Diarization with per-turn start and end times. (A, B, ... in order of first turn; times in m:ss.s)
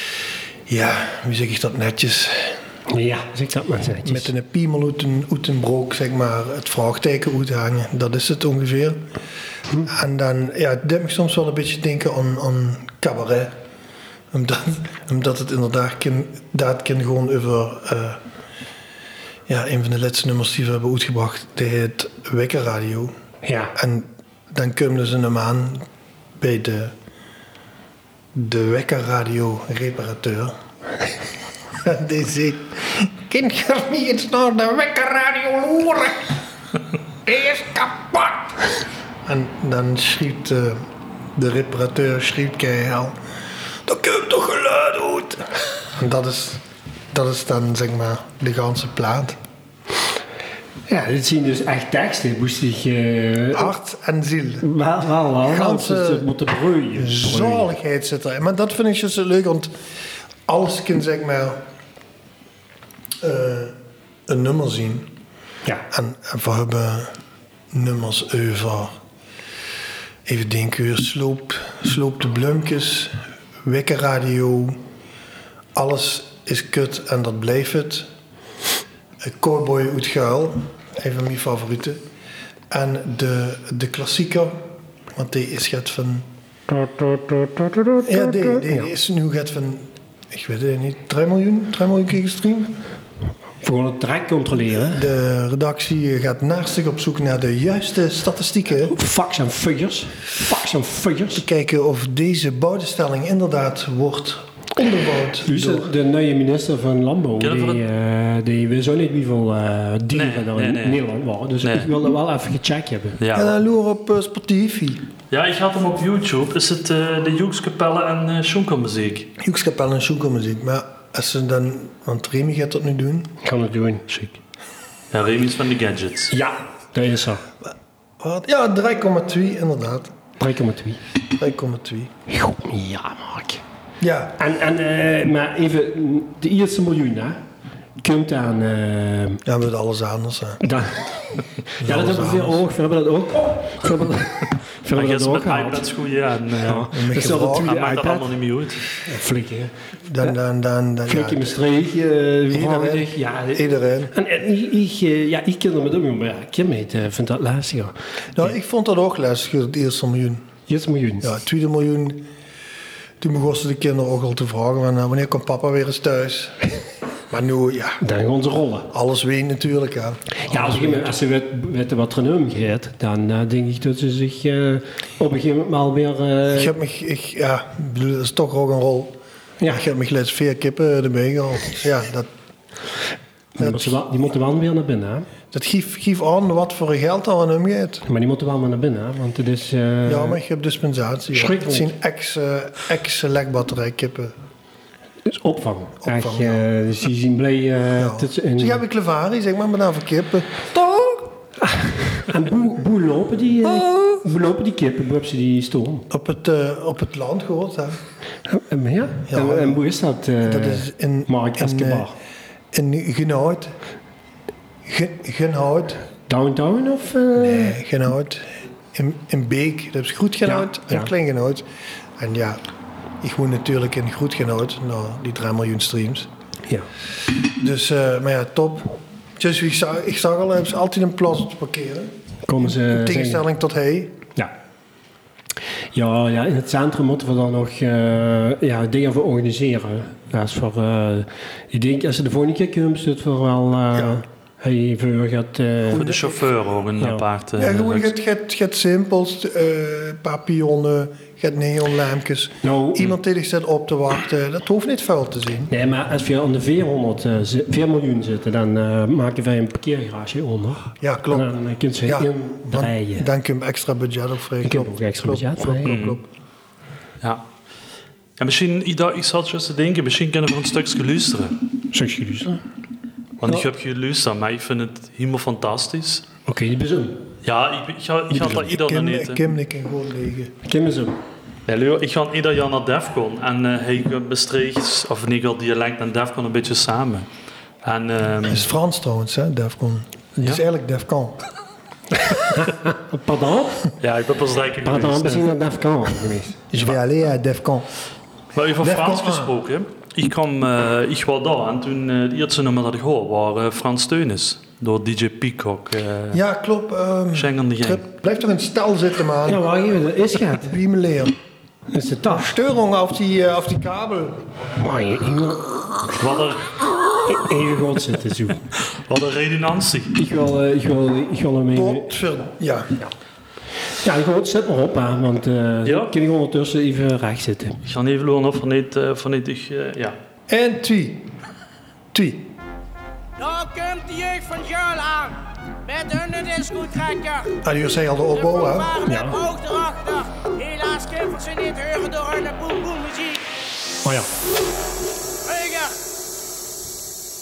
0:00.7-0:02.6 A
0:02.9-0:04.3 B
0:04.0-0:09.0 A
0:09.8-0:13.6 A
0:14.3-0:18.2 A
0:19.5-0:23.1 A
0:23.4-0:23.7 B
0:23.7-0:25.9 A
0:26.4-0:26.9 A
0:28.3-0:30.6 A
0:31.8-0:36.4 A
0:37.2-0:38.6 A
0:39.2-0:40.8 A
0:41.4-0:43.2 A
0:43.8-0:46.6 A
0:47.1-0:49.4 A
0:50.9-0:53.7 B
0:53.5-0:54.7 A
0:54.6-0:57.7 B
0:55.4-0:56.3 A
0:57.0-0:59.7 A
1:00.5-1:01.6 A
1:03.2-1:03.8 A
1:04.3-1:05.1 A
1:05.9-1:07.1 A
1:07.7-1:09.0 A
1:10.3-1:14.8 A
1:15.8-1:18.1 A
1:19.2-1:22.0 A
1:22.7-1:24.6 A
1:25.2-1:26.3 A
1:26.7-1:28.9 B
1:28.0-1:32.8 A
1:33.6-1:35.1 B
1:34.8-1:39.0 A
1:38.9-1:41.4 B
1:41.4-1:45.9 A
1:45.4-1:53.2 B
1:47.4-1:47.8 C
1:50.1-1:51.0 C
1:51.6-1:51.9 C
1:53.2-1:53.6 C
1:53.3-1:55.1 A
1:55.3-1:59.3 C
1:59.4-2:03.4 A
2:03.4-2:04.1 B
2:04.1-2:04.4 C
2:05.1-2:06.3 C
2:06.3-2:07.4 B
2:08.2-2:10.1 A
2:10.4-2:11.0 B
2:11.4-2:12.1 A
2:12.3-2:13.6 B
2:14.0-2:14.4 A
2:14.4-2:17.4 B
2:18.0-2:19.4 B
2:19.4-2:20.6 A
2:20.6-2:21.2 B
2:21.8-2:22.6 A
2:21.8-2:25.9 B
2:24.9-2:26.9 C
2:26.6-2:28.3 B
2:26.9-2:27.7 A
2:27.4-2:28.9 C
2:29.0-2:29.7 B
2:30.1-2:31.5 A
2:31.1-2:38.4 B
2:32.5-2:34.1 A
2:38.4-2:40.5 A
2:40.7-2:41.3 B
2:41.2-2:42.3 A
2:43.2-2:48.0 A
2:48.0-2:48.9 B
2:48.9-2:51.1 A
2:50.4-2:56.7 B
2:56.5-3:02.3 A
3:03.6-3:05.3 B
3:03.6-3:04.0 A
3:05.5-3:08.0 A
3:08.1-3:10.4 B
3:10.1-3:14.3 A
3:11.3-3:11.9 B
3:15.2-3:18.8 B
3:16.0-3:16.7 A
3:18.0-3:21.3 A
3:21.6-3:26.1 B
3:23.6-3:24.2 A
3:26.1-3:28.0 A
3:28.5-3:32.1 B
3:29.3-3:29.8 A
3:30.4-3:32.1 A
3:32.7-3:33.7 A
3:34.8-3:36.0 A
3:36.3-3:37.8 B
3:37.4-3:41.6 A
3:40.5-3:41.1 B
3:42.2-3:42.6 A
3:43.2-3:46.3 A
3:47.4-3:54.2 A
3:52.5-3:53.4 B
3:55.9-4:06.2 B
4:03.9-4:04.2 A
4:05.9-4:06.4 A
4:05.9-4:08.1 C
4:07.6-4:15.7 A
4:12.6-4:13.1 B
4:15.7-4:23.3 B
4:21.0-4:21.5 A
4:22.1-4:26.2 A
4:24.6-4:26.0 B
4:25.8-4:26.2 C
4:28.4-4:31.6 C
4:31.9-4:32.6 B
4:33.4-4:36.3 C
4:36.5-4:37.3 B
4:37.4-4:39.4 C
4:38.3-4:40.6 A
4:40.6-4:41.2 B
4:41.7-4:47.3 C
4:47.8-4:48.7 C
4:48.5-4:51.4 A
4:52.3-4:53.9 B
4:54.0-4:55.5 C
4:54.8-4:56.9 B
4:56.7-4:57.9 A
4:58.5-5:06.4 C
4:58.8-4:59.5 A
5:06.3-5:09.6 A
5:07.3-5:08.0 C
5:09.5-5:10.8 B
5:10.6-5:11.4 A
5:11.9-5:12.5 B
5:12.3-5:14.4 A
5:14.8-5:16.2 B
5:16.1-5:16.8 C
5:17.3-5:18.6 B
5:19.1-5:20.1 C
5:20.2-5:22.2 B
5:21.7-5:23.0 A
5:24.0-5:27.8 B
5:25.8-5:26.1 C
5:27.8-5:30.2 C
5:30.5-5:31.3 A
5:32.1-5:32.5 A
5:33.4-5:37.6 D
5:37.6-5:39.0 A
5:38.3-5:43.5 D
5:39.0-5:39.4 B
5:44.0-5:44.3 B
5:45.4-5:46.0 D